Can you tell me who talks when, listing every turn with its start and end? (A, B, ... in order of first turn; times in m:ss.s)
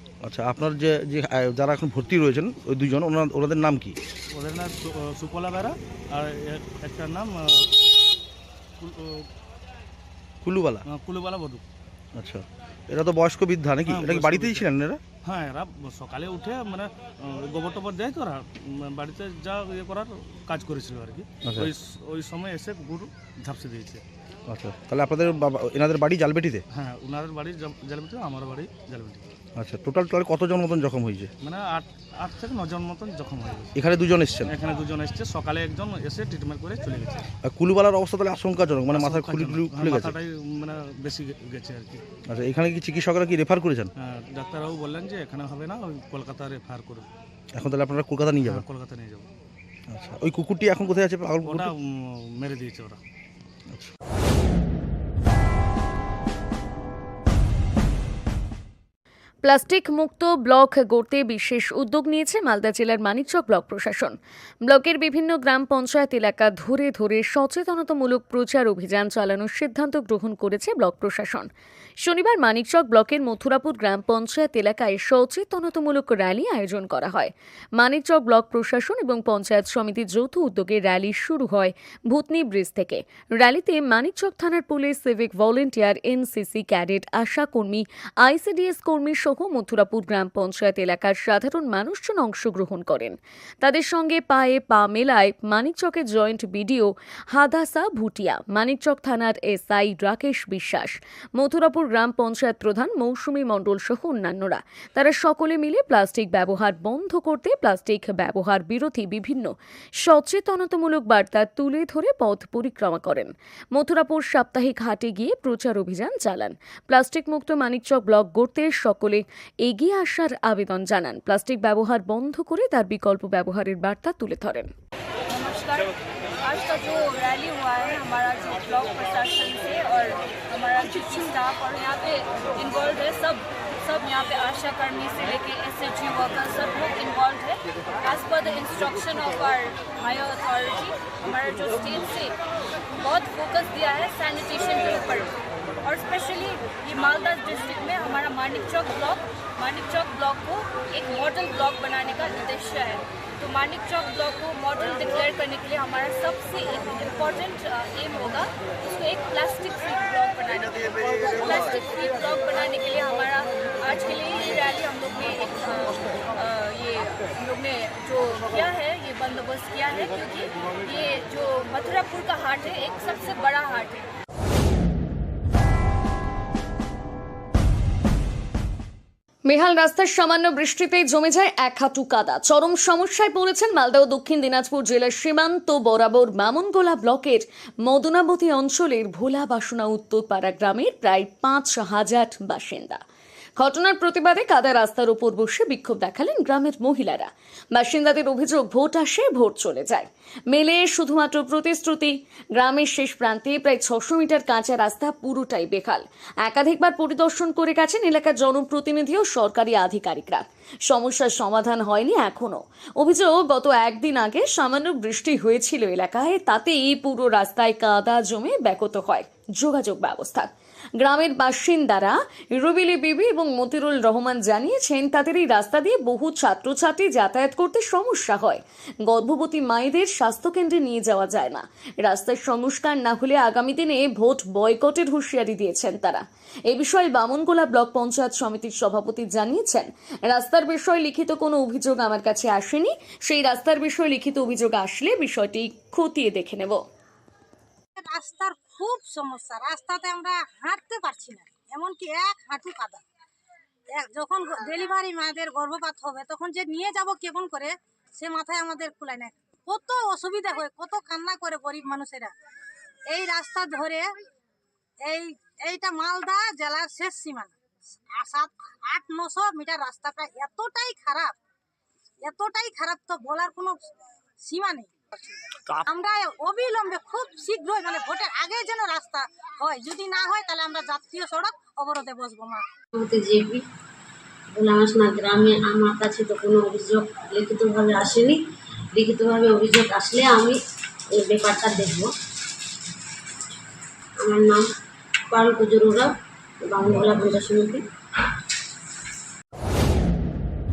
0:00.2-0:03.9 A
0:04.3-0:07.7 B
0:08.8-0:09.2 B
0:10.4-0:10.8 A
0:10.8-0:11.6 B
0:12.2-0:15.0 A
0:13.9-0:14.6 B
0:15.2-0:24.0 B
0:21.4-0:21.7 A
0:24.5-0:26.6 A
0:26.7-0:29.2 B
0:29.6-0:31.3 A
0:31.4-0:33.7 B
0:33.8-0:34.5 A
0:34.5-0:37.3 B
0:37.4-0:40.2 A
0:38.9-0:42.0 B
0:42.3-0:43.9 A
0:44.0-0:47.1 B
0:47.6-0:48.6 A
0:48.4-0:49.3 B
0:49.9-0:51.7 A
0:51.4-0:53.0 B
0:59.4-1:11.5 C
1:12.0-2:04.7 C
2:05.3-2:22.3 D
2:23.0-2:54.0 D
2:59.5-3:13.0 C
3:13.6-4:06.8 C
4:08.0-4:13.0 E
4:13.9-4:22.3 E
4:23.1-4:24.1 E
4:25.0-4:27.5 E
4:28.1-4:31.3 E
4:32.2-4:33.8 E
4:34.4-4:42.6 E
4:43.0-4:43.6 F
4:44.5-4:48.4 F
4:48.9-4:50.6 F
4:51.1-4:52.1 F
4:54.2-4:54.7 F
4:55.3-4:56.1 F
4:56.6-4:57.8 F